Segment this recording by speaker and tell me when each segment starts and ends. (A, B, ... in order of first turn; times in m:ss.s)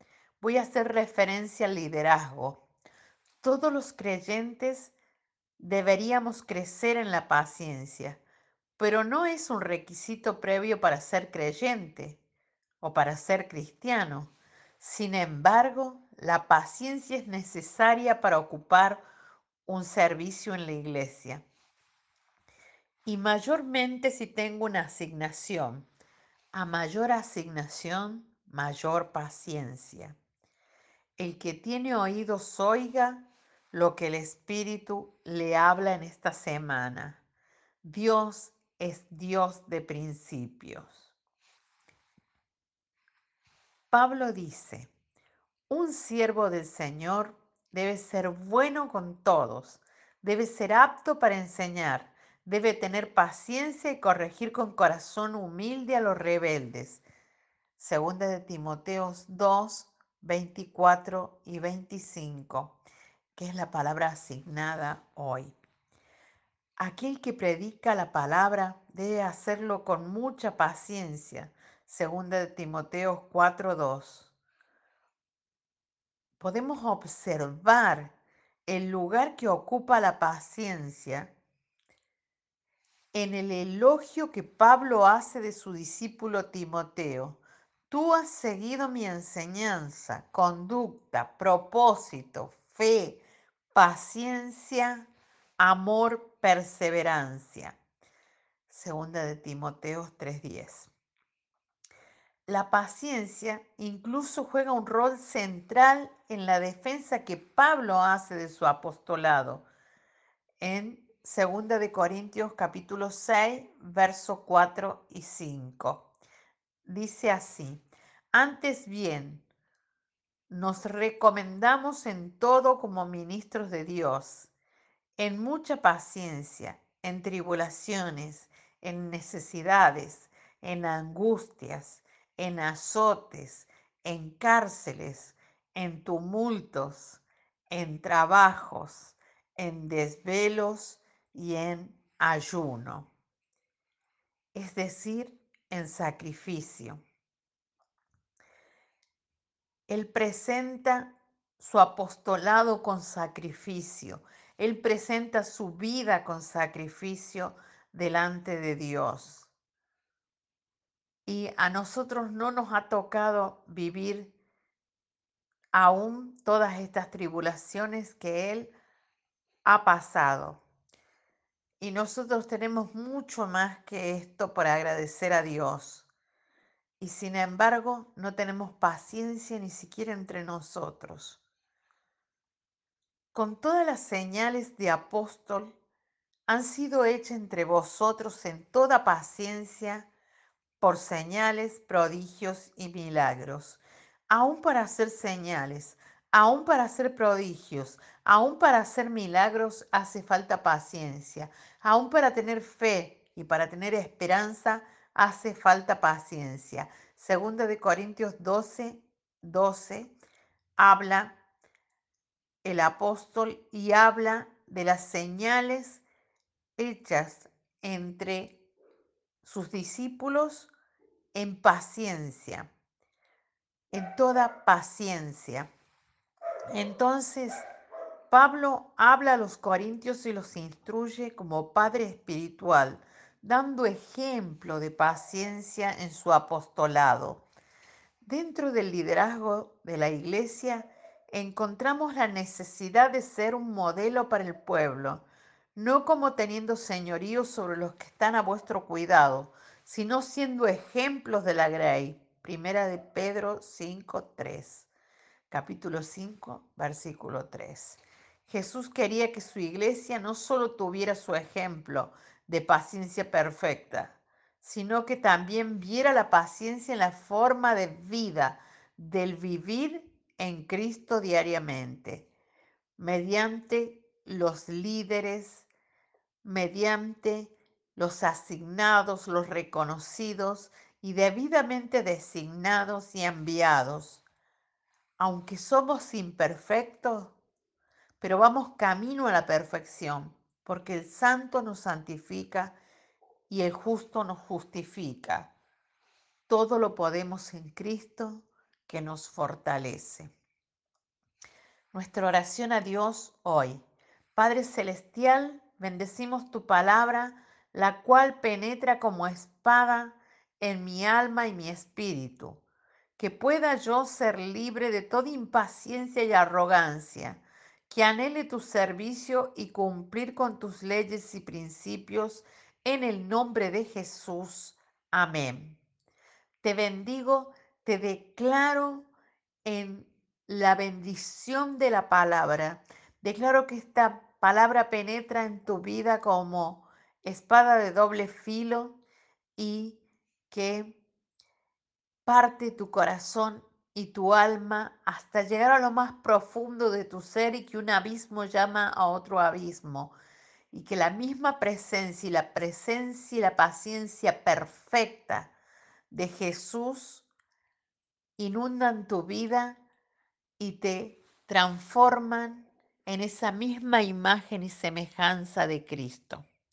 0:00.4-0:02.6 A
0:03.4-0:04.9 A
0:05.6-0:08.2 A
0:08.8-0:12.2 A
0:12.8-0:19.0 A
0:19.7-0:21.4 A
0:23.0-0:25.9 A
0:26.5-0:30.2 A
0:31.2-0:37.2 A
0:37.8-0:41.1 A
0:43.9-0:44.9 A
0:45.7-0:57.0 A
0:57.8-1:02.8 A
1:03.4-1:05.6 A
1:06.8-1:14.3 A
1:16.4-1:18.2 A
1:18.7-1:21.3 A
1:23.1-1:33.2 A
1:33.8-1:35.1 A
1:35.6-1:37.8 A
1:38.7-1:40.9 A
1:42.5-1:49.6 A
1:50.6-1:56.1 A
1:56.9-1:59.4 A
2:00.5-2:04.5 A
2:05.2-2:23.1 A
2:24.6-2:27.0 A
2:29.9-2:39.5 A
2:41.3-2:44.3 A
2:45.7-2:48.7 A
2:49.6-2:50.6 A
2:51.8-2:56.1 A
2:57.0-3:01.4 A
3:03.3-3:05.7 A
3:06.5-3:10.1 A
3:10.8-3:30.1 A
3:30.8-3:31.4 A
3:32.6-3:36.0 A
3:36.8-3:38.6 A
3:39.4-3:40.7 A
3:41.3-3:42.7 A
3:43.9-3:45.7 A
3:46.7-3:47.6 A
3:48.3-3:57.4 A
3:58.2-4:05.2 A
4:05.8-4:14.9 A
4:15.5-4:32.3 A
4:33.0-4:35.7 A
4:36.4-4:44.2 A
4:45.2-4:47.4 A
4:48.2-4:52.8 A
4:53.5-4:55.5 A
4:56.5-5:00.3 A
5:01.9-5:03.8 A
5:04.4-5:12.6 A
5:13.2-5:25.8 A
5:26.6-5:29.1 A
5:29.6-5:39.0 A
5:39.6-5:41.0 A
5:42.3-5:50.1 A
5:50.7-5:55.5 A
5:56.1-5:57.3 A
5:58.4-5:59.8 A
6:00.6-6:06.4 A